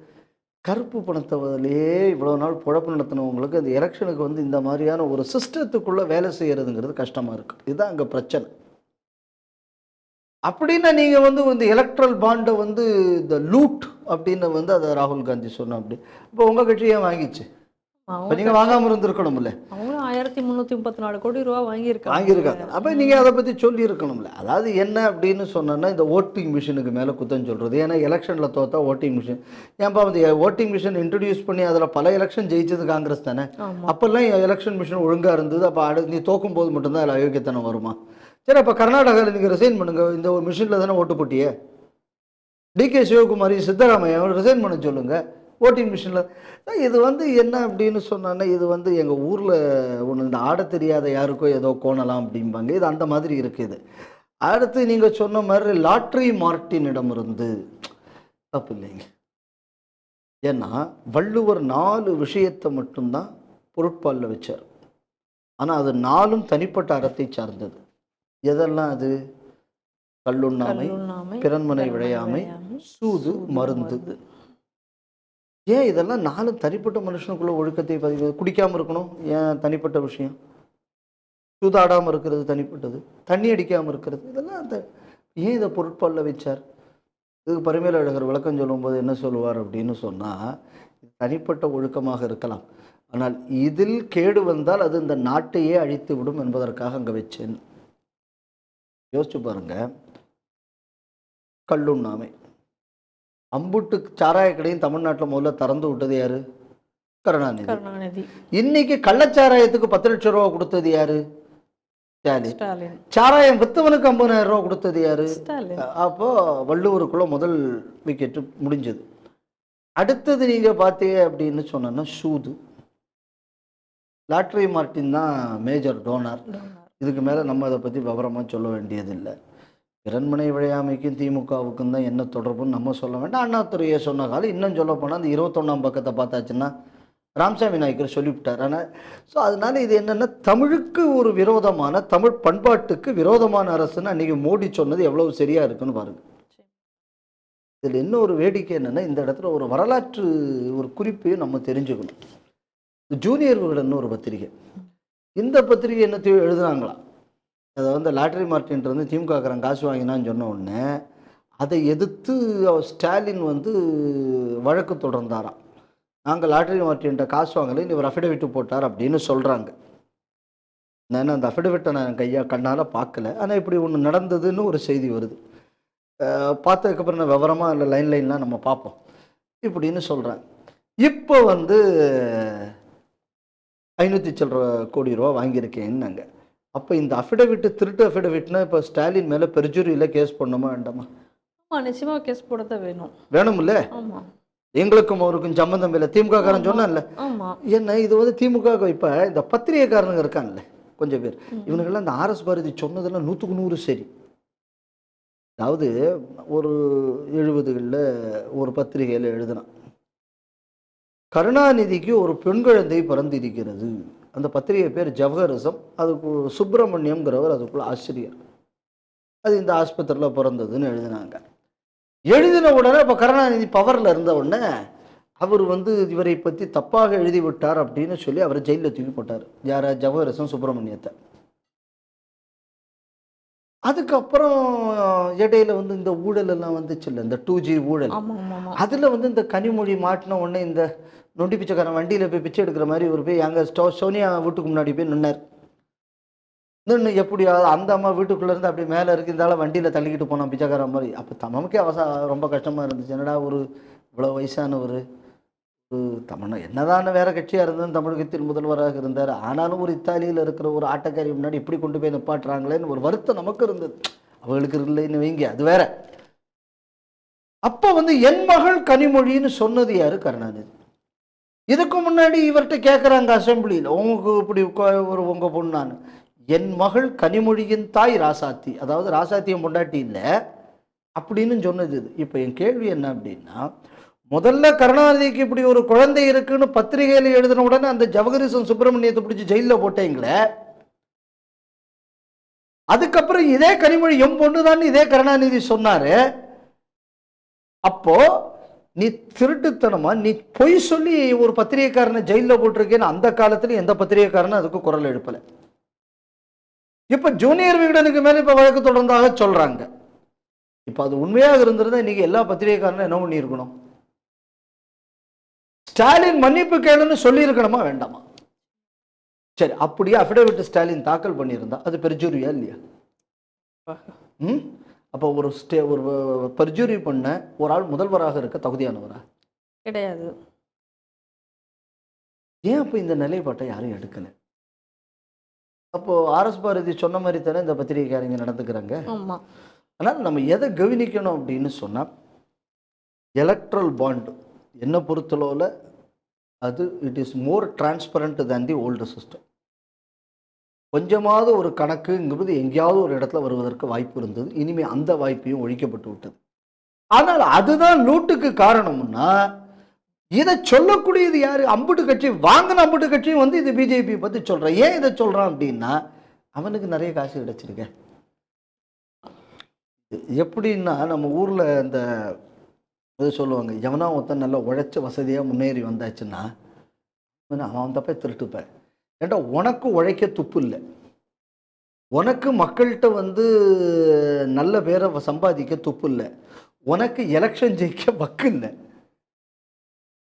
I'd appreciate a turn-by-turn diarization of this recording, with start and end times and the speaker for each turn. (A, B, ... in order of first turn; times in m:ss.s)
0:00.7-0:08.5 A
0:10.5-0:17.4 A
0:18.1-0:18.9 B
0:18.3-0:19.6 A
0:19.7-0:23.3 B
0:22.1-0:38.0 A
0:33.6-0:33.9 B
0:38.5-0:41.5 A
0:42.8-0:53.8 A
0:54.5-0:57.5 A
0:58.5-0:59.0 A
1:00.5-1:04.6 A
1:05.6-1:07.8 A
1:08.5-1:09.1 A
1:10.2-1:14.0 A
1:10.6-1:14.2 B
1:15.7-1:20.4 A
1:21.6-1:24.8 A
1:25.4-1:26.6 A
1:27.5-1:30.4 A
1:31.1-1:37.6 A
1:39.1-1:39.8 A
1:41.7-1:42.3 A
1:43.6-1:46.4 A
1:47.2-1:47.8 A
1:47.6-1:48.3 B
1:48.6-1:51.2 A
1:52.2-1:52.6 A
1:52.4-1:53.0 B
1:53.1-1:59.0 A
1:55.3-1:55.9 B
2:00.0-2:02.6 A
2:04.3-2:06.4 A
2:06.5-2:07.0 B
2:07.0-2:09.3 A
2:10.1-2:16.7 A
2:17.4-2:26.2 A
2:27.8-2:32.2 A
2:33.2-2:34.5 A
2:35.4-2:37.0 A
2:37.8-2:40.8 A
2:41.6-2:45.6 A
2:46.3-2:49.7 A
2:51.1-2:55.4 A
2:56.2-2:59.0 A
2:59.6-3:00.4 A
3:01.0-3:02.7 A
3:04.0-3:06.2 A
3:06.8-3:11.1 A
3:11.7-3:13.1 B
3:13.3-3:13.8 A
3:13.9-3:14.3 B
3:14.8-3:17.1 A
3:16.4-3:17.6 B
3:17.7-3:24.1 A
3:21.6-3:21.8 B
3:25.6-3:25.9 A
3:26.5-3:28.0 A
3:28.6-3:29.7 A
3:31.4-3:38.4 A
3:39.4-3:41.4 A
3:42.3-3:44.6 A
3:45.4-3:51.1 A
3:53.9-3:58.2 A
3:58.1-3:58.8 B
3:58.8-4:00.8 A
4:01.4-4:05.4 A
4:06.9-4:13.6 A
4:14.2-4:15.0 A
4:15.9-4:25.9 A
4:27.7-4:30.7 A
4:31.7-4:36.0 A
4:36.5-4:40.2 A
4:41.2-4:43.6 A
4:44.3-4:50.4 A
4:52.9-4:56.2 A
4:57.9-4:58.2 A
4:59.0-5:05.4 A
5:07.1-5:09.9 A
5:10.9-5:13.7 A
5:15.9-5:18.2 A
5:19.6-5:22.8 A
5:23.9-5:24.1 B
5:24.4-5:29.2 A
5:29.9-5:30.3 B
5:32.7-5:34.3 A
5:35.9-5:39.0 A
5:39.1-5:39.4 B
5:40.0-5:42.1 A
5:43.4-5:45.7 A
5:46.6-5:49.4 A
5:51.0-5:56.4 A
5:57.2-5:59.3 A
6:00.4-6:06.0 A
6:06.6-6:07.9 A
6:10.1-6:12.3 A
6:13.2-6:16.5 A
6:17.5-6:18.6 A
6:19.2-6:20.8 A
6:22.2-6:26.3 A
6:26.9-6:28.7 A